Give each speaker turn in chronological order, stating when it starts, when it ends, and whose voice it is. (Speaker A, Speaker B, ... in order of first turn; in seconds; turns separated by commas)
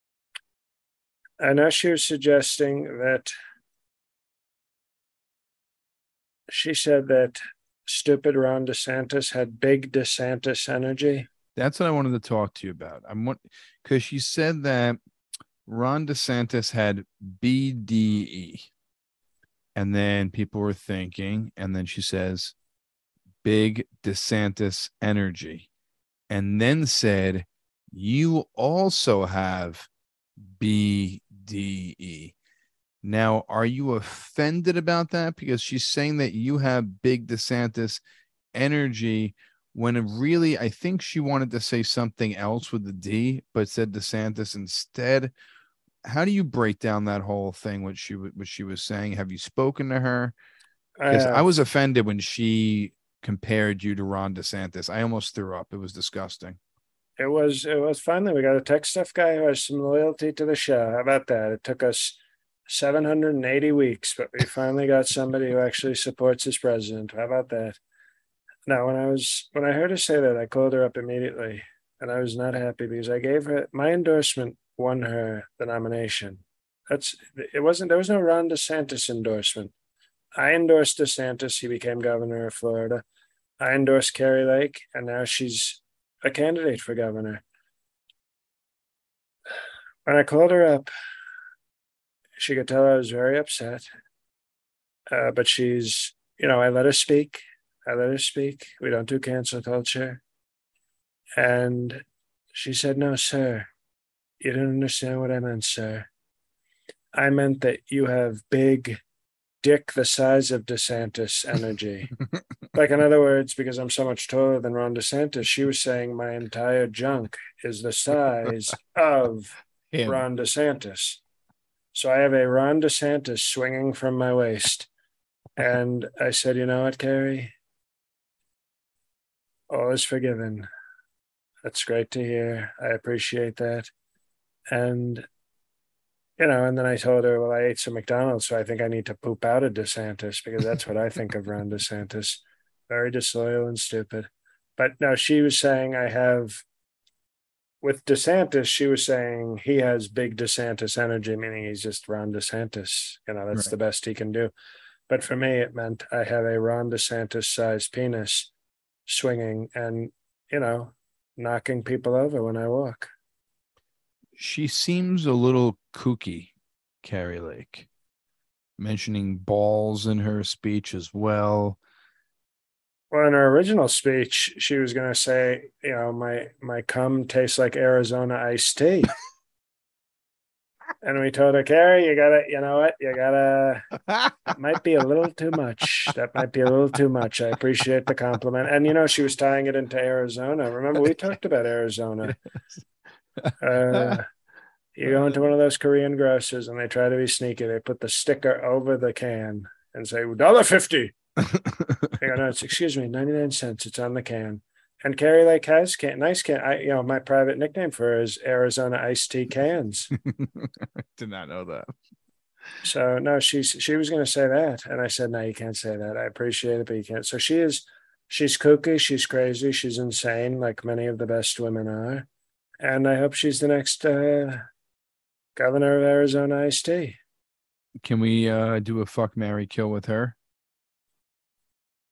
Speaker A: 1.4-3.3, Speaker A: 6.5-11.3, Speaker B: 11.5-15.0, Speaker B: 15.7-18.7, Speaker B: 19.8-22.5, Speaker B: 23.4-25.7, Speaker B: 26.3-29.9, Speaker B: 30.6-32.3, Speaker B: 33.0-38.0, Speaker B: 38.5-45.3, Speaker B: 46.0-50.3, Speaker A: 51.0-51.5, Speaker B: 51.1-56.6, Speaker A: 57.2-67.8, Speaker A: 68.7-79.7, Speaker A: 80.3-83.0, Speaker A: 83.6-87.4, Speaker A: 90.0-90.9, Speaker A: 92.4-93.8, Speaker A: 95.1-100.2, Speaker A: 101.4-103.7, Speaker A: 104.4-106.1, Speaker A: 107.1-109.0, Speaker A: 109.6-112.1, Speaker A: 112.7-119.5, Speaker B: 119.9-120.2, Speaker A: 120.0-121.2, Speaker A: 121.9-124.9, Speaker A: 125.6-127.5, Speaker A: 129.7-130.7, Speaker A: 131.6-133.9, Speaker A: 134.7-135.2, Speaker A: 136.4-146.6, Speaker A: 147.8-154.5, Speaker A: 155.1-158.5, Speaker A: 159.1-163.1, Speaker B: 164.3-166.5, Speaker B: 167.0-167.9, Speaker B: 168.8-171.8, Speaker A: 173.1-179.1, Speaker A: 181.0-183.9, Speaker A: 184.5-192.4, Speaker B: 193.4-194.2, Speaker A: 193.6-194.3, Speaker A: 194.9-201.1, Speaker B: 201.4-202.1, Speaker A: 202.2-210.1, Speaker B: 210.2-211.9, Speaker A: 212.8-222.3, Speaker A: 222.8-224.7, Speaker A: 225.6-227.2, Speaker B: 228.0-230.4